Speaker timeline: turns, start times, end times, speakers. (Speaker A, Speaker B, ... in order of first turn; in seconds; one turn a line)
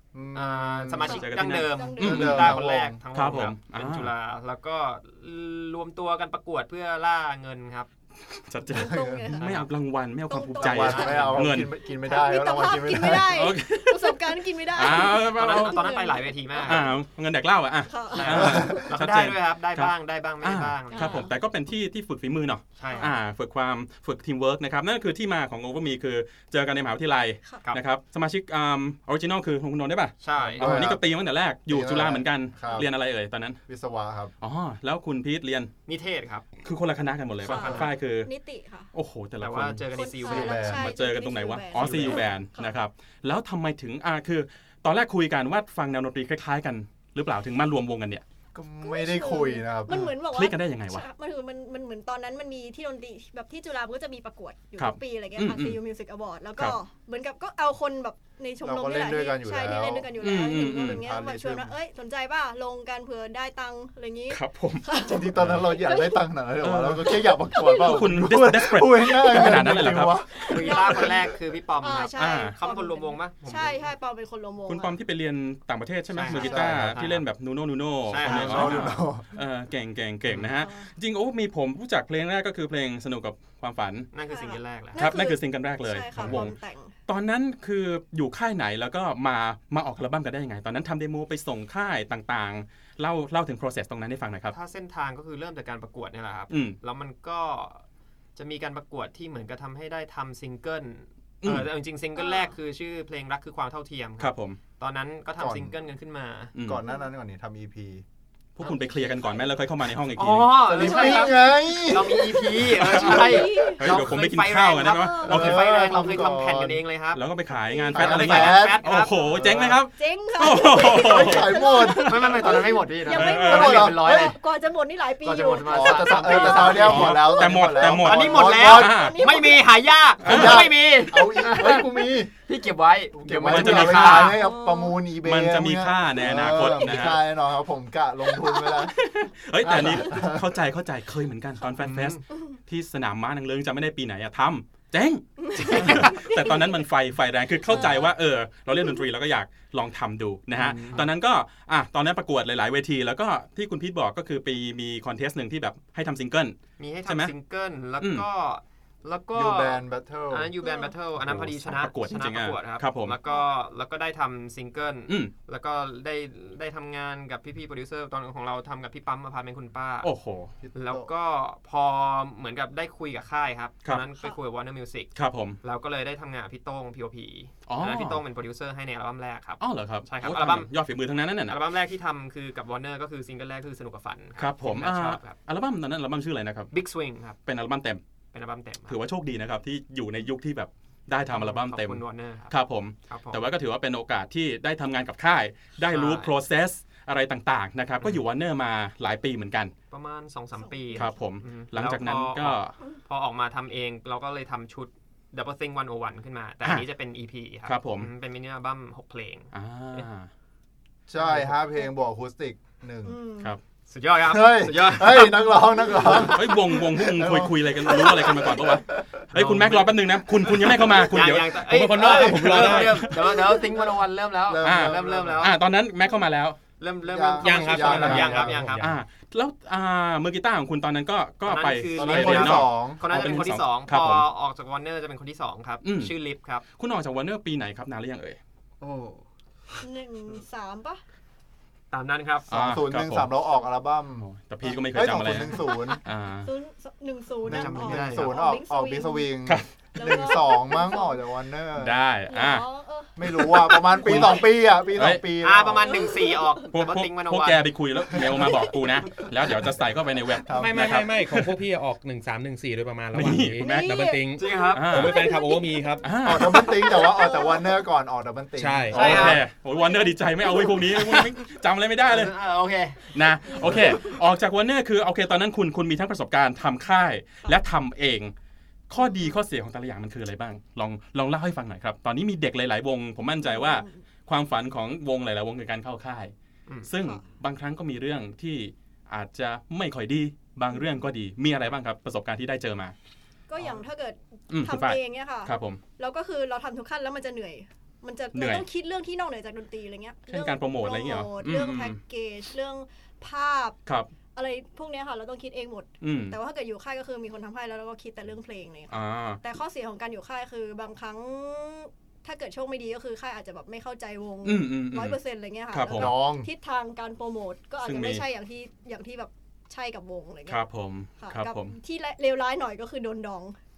Speaker A: 0.1-1.3
Speaker B: 0.3-7.9
Speaker C: 1.0-2.3
Speaker D: 1.1-2.6
Speaker A: 2.0-3.0
Speaker D: 3.1-4.1
Speaker D: 8.3-11.7
Speaker C: 8.7-9.7
Speaker A: 8.7-9.4
Speaker B: 9.3-9.7
Speaker C: 10.3-11.3
Speaker B: 10.6-11.5
Speaker A: 10.6-13.5
Speaker C: 11.9-16.9
Speaker D: 13.2-15.8
Speaker B: 15.1-16.9
Speaker D: 16.6-33.6
Speaker C: 17.9-19.0
Speaker B: 18.1-21.3
Speaker A: 18.4-18.9
Speaker C: 20.9-21.3
Speaker B: 22.8-23.2
Speaker C: 22.9-23.1
Speaker C: 27.4-27.7
Speaker B: 30.2-30.8
Speaker A: 30.6-31.1
Speaker A: 31.7-32.9
Speaker A: 33.7-34.3
Speaker D: 34.4-35.7
Speaker B: 35.9-36.5
Speaker D: 36.6-38.3
Speaker B: 37.4-37.9
Speaker C: 37.4-38.9
Speaker D: 38.9-40.0
Speaker B: 39.4-40.9
Speaker C: 39.9-42.8
Speaker A: 40.2-40.9
Speaker D: 40.8-48.2
Speaker B: 41.8-42.3
Speaker A: 48.5-50.1
Speaker C: 48.8-66.2
Speaker D: 49.9-51.1
Speaker D: 54.8-55.8
Speaker A: 58.6-60.2
Speaker D: 60.2-61.0
Speaker A: 60.9-61.7
Speaker D: 64.3-64.8
Speaker A: 65.0-71.2
Speaker D: 66.6-67.1
Speaker C: 67.5-68.0
Speaker D: 67.8-70.2
Speaker C: 69.3-69.6
Speaker C: 70.3-71.3
Speaker B: 70.5-73.9
Speaker C: 71.8-75.0
Speaker D: 72.2-72.5
Speaker D: 74.7-84.1
Speaker B: 76.1-77.2
Speaker C: 76.3-76.6
Speaker A: 76.3-77.0
Speaker B: 78.1-79.0
Speaker A: 78.2-79.3
Speaker C: 80.6-80.9
Speaker B: 84.1-85.1
Speaker C: 84.3-87.0
Speaker D: 85.0-86.6
Speaker D: 87.1-94.5
Speaker B: 94.5-97.8
Speaker D: 96.5-96.8
Speaker B: 98.4-106.5
Speaker D: 101.4-101.7
Speaker D: 104.2-104.6
Speaker A: 105.4-105.8
Speaker D: 106.5-106.8
Speaker A: 106.7-108.0
Speaker D: 108.6-111.2
Speaker B: 108.6-109.1
Speaker B: 110.2-117.2
Speaker A: 110.7-112.7
Speaker D: 112.7-115.6
Speaker C: 112.9-114.0
Speaker C: 114.8-115.4
Speaker A: 115.2-116.8
Speaker D: 117.1-122.4
Speaker C: 117.7-118.1
Speaker A: 117.9-118.8
Speaker B: 117.9-119.5
Speaker A: 119.3-119.8
Speaker C: 119.9-126.7
Speaker A: 120.8-122.8
Speaker B: 122.0-124.4
Speaker D: 123.1-123.9
Speaker A: 123.4-124.3
Speaker B: 125.2-131.9
Speaker A: 125.6-129.1
Speaker D: 126.7-129.2
Speaker C: 128.9-129.7
Speaker D: 130.2-130.8
Speaker A: 130.2-132.3
Speaker B: 132.5-134.4
Speaker A: 133.2-138.9
Speaker D: 133.4-134.4
Speaker C: 134.3-135.0
Speaker D: 135.1-137.2
Speaker D: 138.8-157.3
Speaker A: 139.6-140.5
Speaker B: 141.8-142.2
Speaker C: 145.4-146.5
Speaker B: 145.6-146.4
Speaker C: 147.7-148.0
Speaker B: 150.6-151.1
Speaker B: 156.8-170.1
Speaker D: 158.0-158.3
Speaker A: 159.3-160.5
Speaker C: 160.6-160.9
Speaker D: 161.2-163.2
Speaker D: 170.0-170.5
Speaker A: 170.6-171.1
Speaker B: 170.8-180.7
Speaker D: 175.2-175.6
Speaker D: 177.7-178.2
Speaker D: 179.6-181.6
Speaker B: 181.5-185.4
Speaker D: 184.4-186.7
Speaker B: 186.7-187.4
Speaker D: 187.5-188.0
Speaker B: 188.3-189.0
Speaker D: 188.9-199.7
Speaker B: 191.3-192.5
Speaker B: 193.1-193.4
Speaker B: 195.9-196.3
Speaker B: 199.9-210.1
Speaker C: 200.6-201.2
Speaker D: 200.9-202.8
Speaker D: 207.7-208.1
Speaker D: 209.5-210.3
Speaker A: 211.1-213.2
Speaker B: 211.2-211.5
Speaker C: 213.1-213.6
Speaker B: 213.9-216.3
Speaker A: 214.2-219.2
Speaker D: 216.1-221.6
Speaker B: 219.3-219.9
Speaker B: 220.7-225.7
Speaker E: 221.6-223.1
Speaker A: 222.0-222.7
Speaker D: 222.6-222.9
Speaker A: 224.5-225.5
Speaker D: 224.6-226.6
Speaker B: 226.8-228.9
Speaker A: 227.1-228.7
Speaker E: 227.4-229.0
Speaker D: 227.9-234.3
Speaker B: 231.4-236.6
Speaker A: 232.0-233.0
Speaker D: 235.8-236.1
Speaker D: 236.8-238.4
Speaker B: 238.8-239.2
Speaker C: 239.8-241.0
Speaker B: 241.9-242.5
Speaker D: 242.5-243.3
Speaker A: 242.5-246.0
Speaker D: 244.2-246.5
Speaker C: 245.5-249.3
Speaker A: 247.4-252.0
Speaker B: 247.5-248.4
Speaker C: 249.9-251.2
Speaker D: 251.8-252.7
Speaker C: 252.3-254.3
Speaker A: 253.2-256.1
Speaker D: 253.4-255.2
Speaker B: 255.4-258.3
Speaker C: 255.9-256.6
Speaker D: 256.7-261.6
Speaker A: 260.5-261.0
Speaker E: 260.5-266.1
Speaker D: 263.1-263.9
Speaker C: 263.6-264.3
Speaker B: 264.4-265.1
Speaker D: 264.7-265.3
Speaker C: 265.1-267.8
Speaker D: 266.0-266.7
Speaker A: 266.2-269.3
Speaker E: 268.6-269.2
Speaker B: 268.9-269.4
Speaker D: 268.9-272.3
Speaker C: 269.8-270.8
Speaker B: 270.9-271.3
Speaker B: 272.0-273.8
Speaker D: 273.1-278.3
Speaker C: 273.5-274.2
Speaker D: 278.9-286.3
Speaker C: 283.4-284.0
Speaker D: 286.9-292.9
Speaker C: 287.0-287.2
Speaker C: 293.5-303.8
Speaker D: 294.5-295.8
Speaker D: 298.3-298.7
Speaker D: 300.3-302.0
Speaker D: 303.9-304.1
Speaker C: 304.4-320.6
Speaker D: 306.0-306.4
Speaker D: 308.9-309.4
Speaker D: 314.4-316.1
Speaker A: 315.9-316.5
Speaker D: 317.8-318.2
Speaker D: 320.5-321.8
Speaker C: 321.2-323.6